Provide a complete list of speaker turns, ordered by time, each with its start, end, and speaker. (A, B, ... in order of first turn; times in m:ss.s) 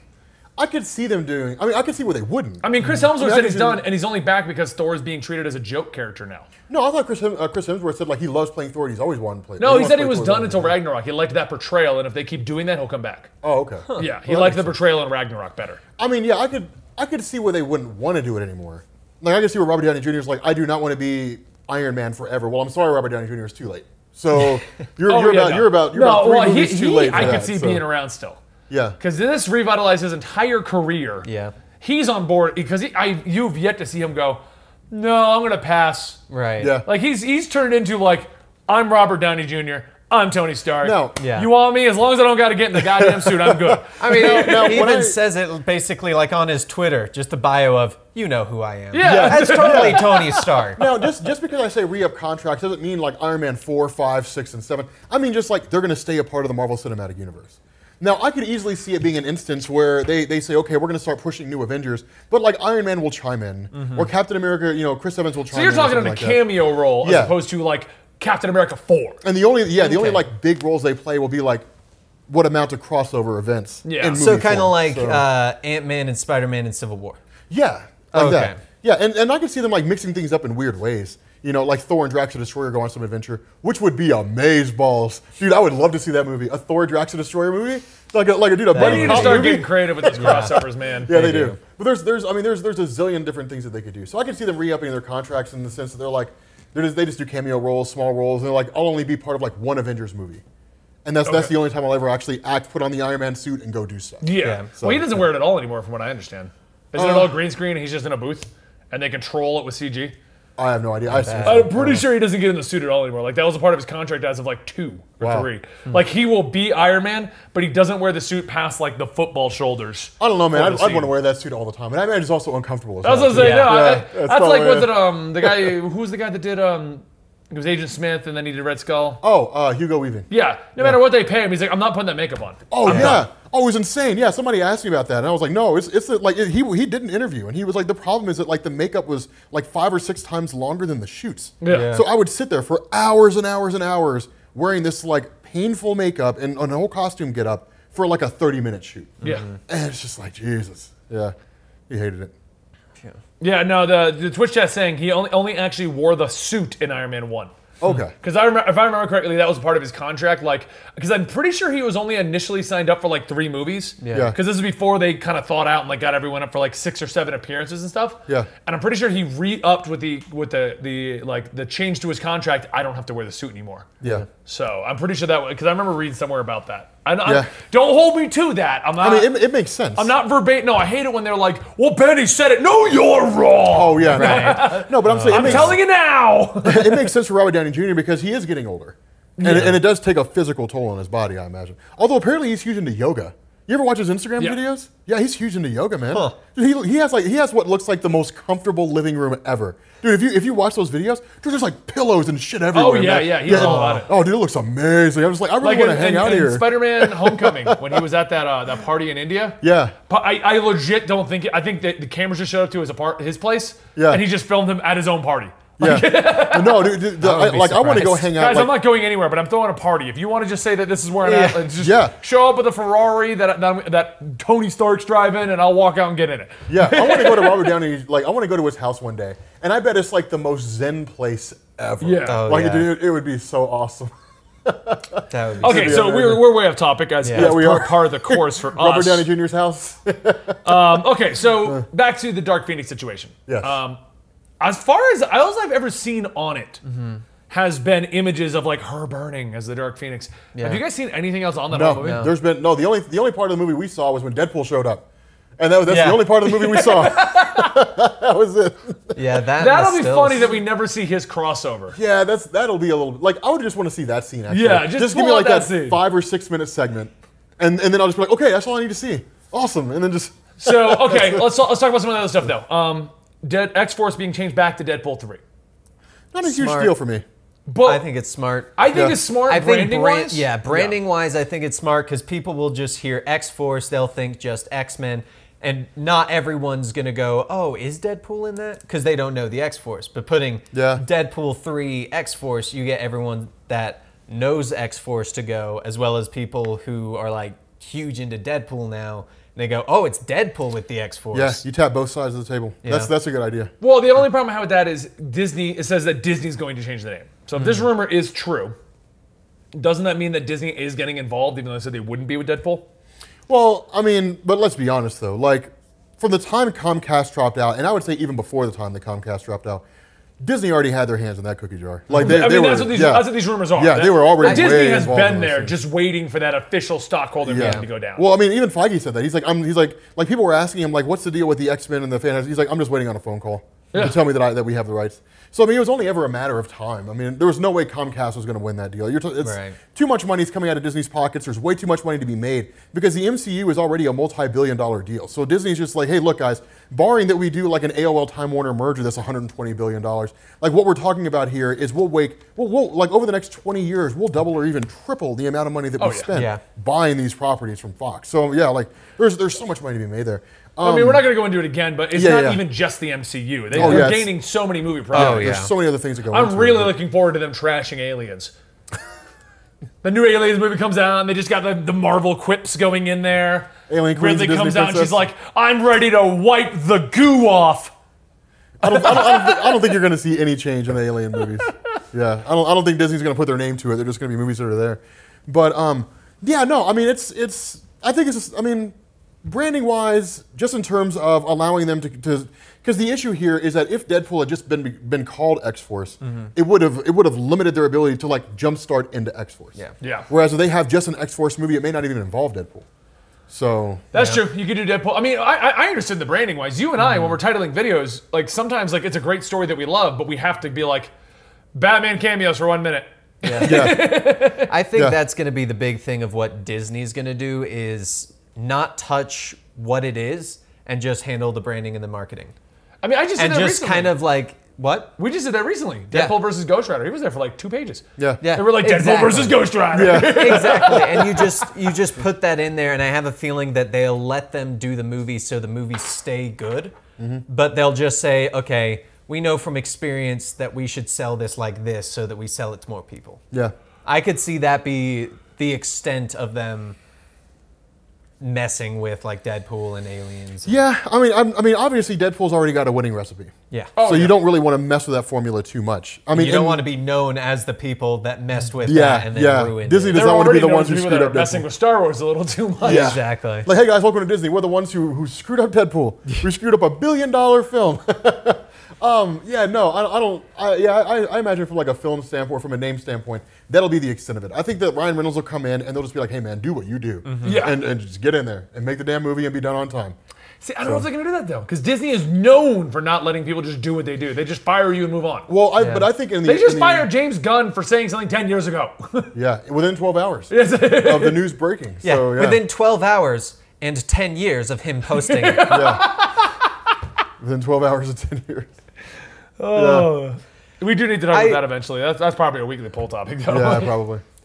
0:00.6-0:03.8 A
0:02.6-0:06.5 B
0:06.7-0:10.8 A
0:09.6-0:13.3 B
0:13.4-0:14.7 A
0:14.0-0:15.8 B
0:16.0-0:27.8 A
0:25.0-0:28.4 B
0:28.7-0:29.0 A
0:29.0-0:31.3 B
0:31.2-0:31.5 C
0:31.8-0:36.2 B
0:36.3-0:36.8 C
0:36.6-0:36.9 A
0:36.8-0:44.9 B
0:40.8-0:41.2 A
0:41.2-0:41.5 C
0:42.8-0:45.2 A
0:44.0-0:50.8 C
0:48.9-0:50.8 B
0:49.0-0:50.2 A
0:50.7-1:06.5 A
1:03.7-1:04.1 C
1:05.5-1:09.2 B
1:07.0-1:07.4 A
1:09.2-1:11.6 A
1:09.8-1:10.2 C
1:12.3-1:15.2 A
1:13.8-1:14.2 B
1:14.2-1:17.2 C
1:17.5-1:40.4 A
1:18.1-1:18.6 C
1:28.7-1:29.6 C
1:28.7-1:31.1 B
1:30.1-1:31.6 C
1:41.0-1:45.2 A
1:41.2-1:41.5 B
1:44.2-1:50.1 B
1:44.4-1:44.7 C
1:46.9-1:47.3 A
1:50.6-1:52.0 A
1:51.1-1:51.7 C
1:51.4-2:01.1 B
1:55.2-1:55.5 A
2:00.2-2:05.7 A
2:03.0-2:09.2 B
2:03.3-2:03.9 C
2:09.2-2:11.0 A
2:10.3-2:13.2 B
2:12.7-2:31.3 A
2:12.9-2:13.2 C
2:21.6-2:22.0 B
2:21.7-2:22.0 C
2:29.2-2:29.6 C
2:31.9-2:32.3 A
2:33.4-2:37.5 B
2:37.8-2:38.1 A
2:38.2-2:53.9 B
2:44.0-2:44.3 C
2:44.1-2:44.4 A
2:54.0-2:54.2 A
2:54.4-2:59.3 B
2:57.2-2:57.5 A
2:59.0-3:00.1 A
3:00.0-3:07.1 B
3:03.7-3:05.8 A
3:04.1-3:05.8 C
3:06.6-3:28.0 A
3:09.4-3:09.8 B
3:16.1-3:16.4 C
3:22.7-3:24.1 B
3:23.5-3:24.0 C
3:25.6-3:47.7 B
3:29.6-3:30.0 A
3:34.0-3:34.2 A
3:35.8-3:38.7 A
3:37.2-3:38.2 C
3:41.2-3:41.7 C
3:41.8-3:42.1 A
3:46.7-3:54.1 A
3:52.0-3:52.4 B
3:52.3-3:52.9 C
3:54.6-3:56.5 A
3:55.3-3:56.2 C
3:55.6-3:59.3 B
3:57.2-3:57.7 C
3:57.3-4:01.0 A
4:00.6-4:04.0 B
4:03.5-4:03.8 A
4:04.6-4:06.8 B
4:06.8-4:07.2 C
4:07.5-4:12.3 B
4:10.5-4:10.8 C
4:11.7-4:15.0 A
4:12.0-4:12.3 C
4:15.6-4:19.2 A
4:15.9-4:16.4 C
4:16.5-4:17.7 B
4:19.1-4:20.6 C
4:19.6-4:22.0 B
4:21.9-4:31.5 A
4:24.5-4:26.0 B
4:30.6-4:35.4 B
4:36.3-4:37.2 A
4:36.4-4:36.9 C
4:37.7-4:38.0 B
4:37.8-5:01.6 C
4:38.8-4:41.0 B
4:38.9-4:39.2 A
4:50.7-4:51.0 A
5:01.3-5:03.7 A
5:02.8-5:03.1 C
5:03.8-5:08.7 B
5:07.6-5:07.9 C
5:09.7-5:12.8 B
5:13.5-5:19.8 A
5:20.4-5:25.8 A
5:22.1-5:28.2 B
5:24.4-5:24.8 C
5:27.4-6:01.3 A
5:27.6-5:27.8 C
5:33.9-5:34.2 B
5:39.4-5:39.8 C
5:56.0-5:56.3 B
5:56.3-5:56.6 C
6:00.8-6:05.6 B
6:02.1-6:02.6 A
6:03.7-6:04.3 A
6:03.7-6:04.1 C
6:05.1-6:05.7 C
6:05.1-6:07.0 A
6:06.3-6:08.5 B
6:10.0-6:17.9 B
6:13.9-6:15.3 A
6:18.8-6:39.8 A
6:18.8-6:19.8 B
6:36.2-6:36.5 C
6:40.0-6:40.3 B
6:40.3-6:42.8 A
6:43.5-6:44.0 A
6:44.1-6:51.1 B
6:44.1-6:44.4 C
6:47.0-6:47.4 C
6:51.7-6:54.7 B
6:53.4-7:02.5 C
6:53.6-6:54.2 A
7:03.0-7:04.1 B
7:03.4-7:05.2 C
7:05.2-7:11.7 B
7:06.1-7:06.4 C
7:08.4-7:17.0 C
7:09.9-7:10.8 A
7:17.2-7:17.4 A
7:17.5-7:23.4 C
7:24.0-7:27.0 C
7:28.4-7:30.8 C
7:30.6-7:36.8 A
7:34.0-7:34.4 B
7:36.3-7:40.3 C
7:38.8-7:41.7 A
7:40.1-7:43.2 B
7:42.8-7:43.7 C
7:42.8-8:00.2 A
7:57.2-7:57.6 C
7:57.4-7:57.8 B
8:00.6-8:05.5 B
8:05.5-8:07.1 A
8:05.8-8:06.1 C
8:06.4-8:09.3 B
8:09.3-8:12.6 A
8:10.5-8:11.4 B
8:12.0-8:16.0 C
8:15.1-8:16.5 B
8:15.7-8:16.1 A
8:17.4-8:18.7 A
8:19.6-8:23.9 B
8:19.7-8:20.1 A
8:21.3-8:21.6 C
8:23.5-8:24.2 A